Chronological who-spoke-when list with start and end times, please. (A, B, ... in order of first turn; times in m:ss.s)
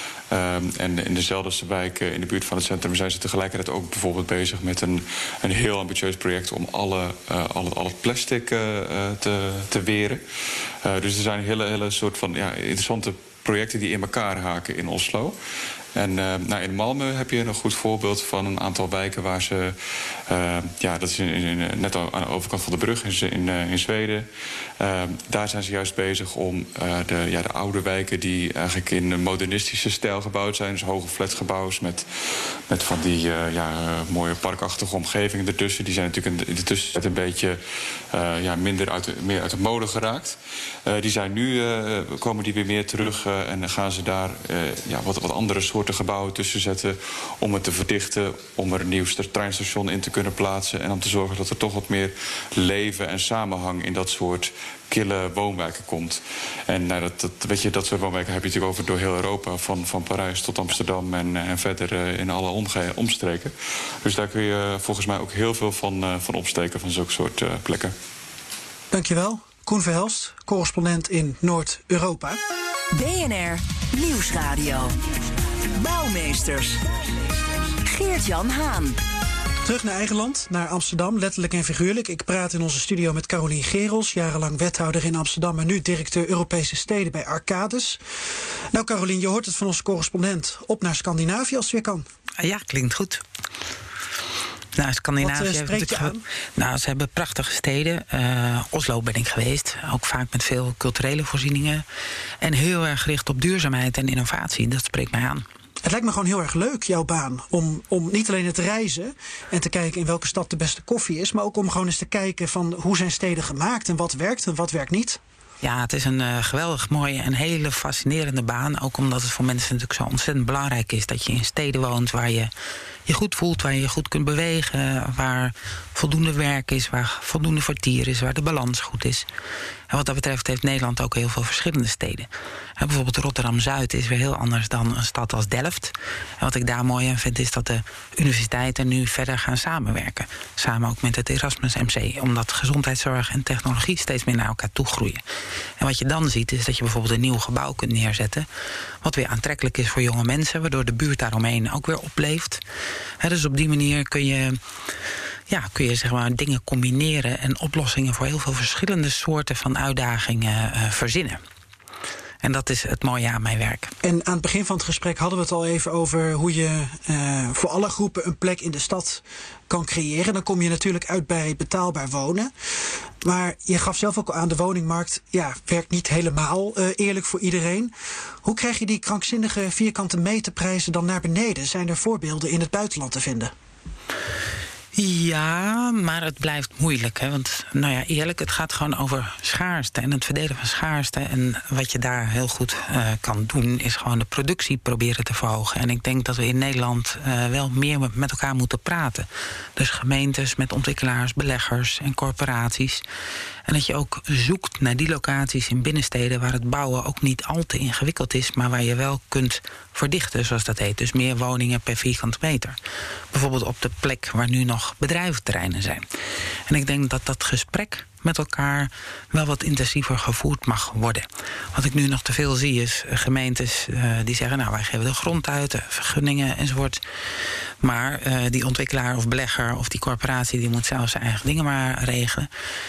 0:00.3-0:10.2 A
0:10.8-0:15.4 A
0:15.9-0:19.8 A
0:20.3-0:24.2 A
0:24.8-0:32.0 A
0:32.7-0:37.6 A
0:38.1-1:07.9 A
1:08.9-1:12.4 B
1:12.9-1:15.0 C
1:15.8-1:17.3 C
1:17.8-1:19.0 C
1:19.6-1:28.0 B
1:28.7-1:32.0 B
1:32.4-1:33.2 D
1:34.8-1:41.8 D
1:35.2-1:36.2 B
1:42.4-1:45.4 D
1:45.8-1:55.2 B
1:55.6-2:02.5 D
2:03.0-2:09.2 D
2:09.9-2:25.2 D
2:25.8-2:28.5 D
2:29.0-2:32.6 D
2:33.2-2:34.6 D
2:35.5-2:41.4 D
2:42.4-2:43.9 D
2:44.0-2:52.5 B
2:53.2-2:57.9 B
2:58.4-3:03.5 B
3:04.9-3:23.0 D
3:23.7-3:32.8 D
3:33.3-3:36.1 D
3:36.7-3:47.0 D
3:47.8-3:52.5 D